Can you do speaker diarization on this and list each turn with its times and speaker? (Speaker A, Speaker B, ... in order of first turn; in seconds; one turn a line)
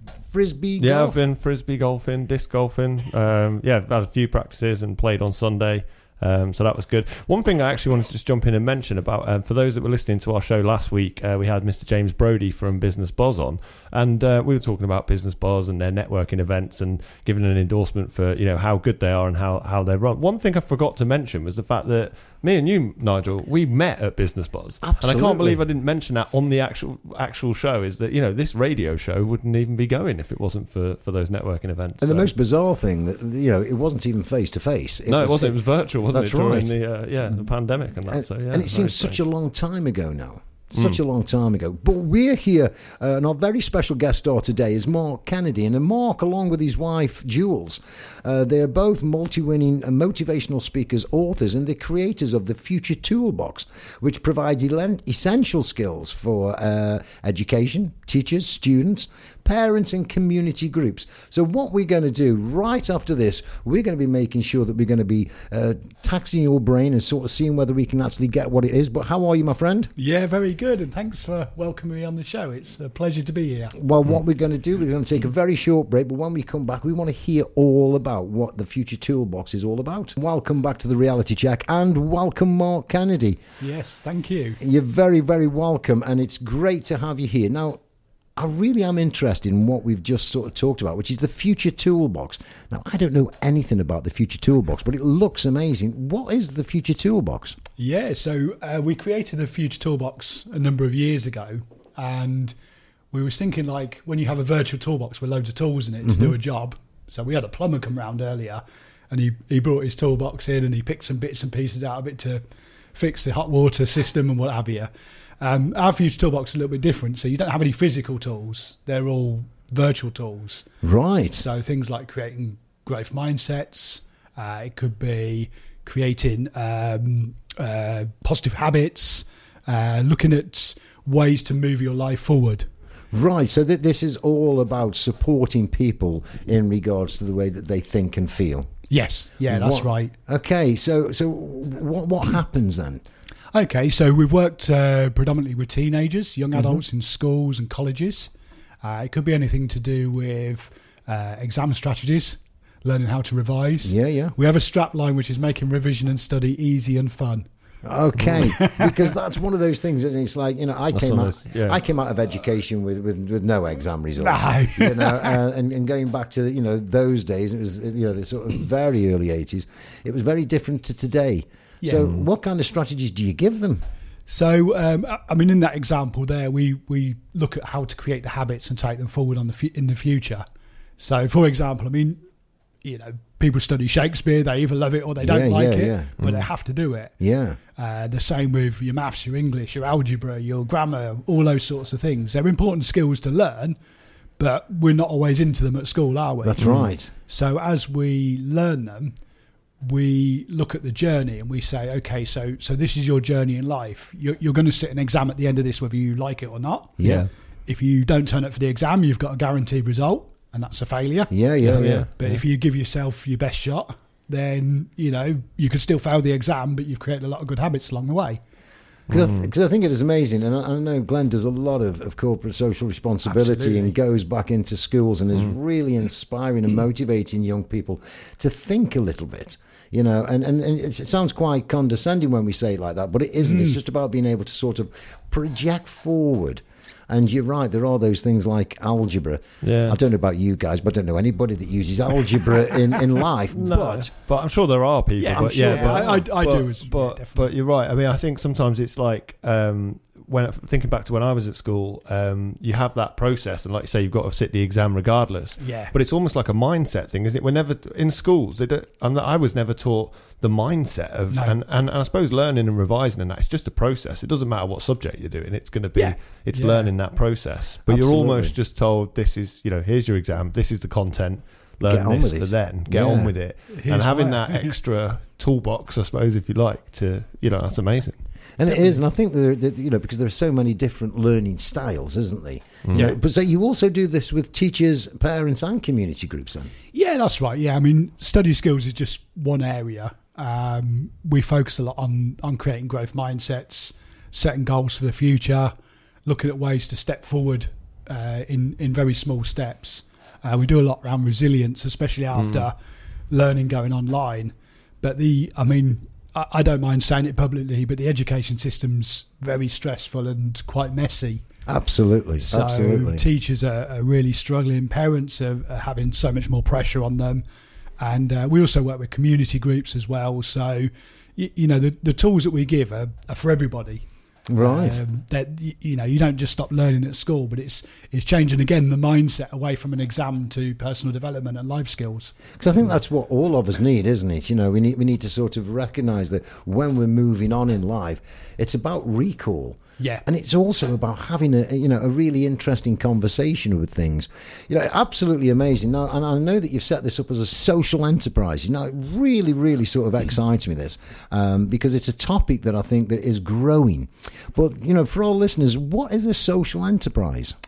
Speaker A: 0.3-1.2
Speaker B: 0.8-32.3
Speaker A: 24.8-25.6
Speaker A: 32.0-36.7
Speaker B: 35.1-39.2
Speaker A: 38.1-69.9
Speaker C: 70.0-73.8
Speaker A: 73.8-83.4
Speaker C: 83.6-84.6
Speaker A: 84.6-87.8
Speaker A: 88.4-97.6
Speaker C: 97.8-102.5
Speaker C: 103.1-112.4
Speaker A: 106.0-106.3
Speaker C: 113.0-120.7
Speaker A: 120.8-121.4
Speaker C: 121.3-132.7
Speaker A: 133.1-138.7
Speaker C: 138.9-140.1
Speaker A: 139.5-143.0
Speaker C: 143.5-148.3
Speaker A: 146.5-146.8
Speaker C: 148.8-157.5
Speaker A: 153.8-154.3
Speaker A: 157.8-173.8
Speaker C: 158.3-159.1
Speaker B: 160.9-161.8
Speaker C: 164.2-165.4
Speaker C: 171.8-172.1
Speaker B: 172.0-172.3
Speaker C: 174.3-180.4
Speaker C: 181.0-182.2
Speaker C: 182.8-187.2
Speaker A: 185.2-186.1
Speaker B: 186.2-186.5
Speaker A: 187.2-187.6
Speaker C: 187.8-193.8
Speaker C: 194.4-199.1
Speaker A: 196.4-197.1
Speaker B: 196.6-196.8
Speaker C: 199.8-218.4
Speaker A: 207.0-207.3
Speaker B: 207.0-207.3
Speaker A: 211.3-212.1
Speaker B: 211.7-212.4
Speaker B: 219.1-219.5
Speaker A: 219.1-244.1
Speaker C: 223.3-223.9
Speaker C: 233.4-233.8
Speaker B: 239.6-240.0
Speaker B: 243.5-278.2
Speaker C: 245.2-247.5
Speaker A: 245.4-246.1
Speaker C: 255.6-255.9
Speaker C: 261.3-261.6
Speaker C: 266.0-266.9
Speaker A: 267.9-268.6
Speaker A: 271.8-273.3
Speaker C: 273.7-274.8
Speaker A: 278.6-286.7
Speaker C: 278.7-279.0
Speaker B: 282.9-283.1
Speaker C: 286.9-295.7
Speaker C: 296.3-302.8
Speaker B: 302.4-302.7
Speaker C: 303.3-311.4
Speaker A: 311.7-313.2
Speaker C: 312.5-317.4
Speaker C: 318.0-324.1
Speaker A: 324.5-325.0
Speaker C: 324.6-332.6
Speaker A: 332.6-357.6
Speaker C: 340.0-340.2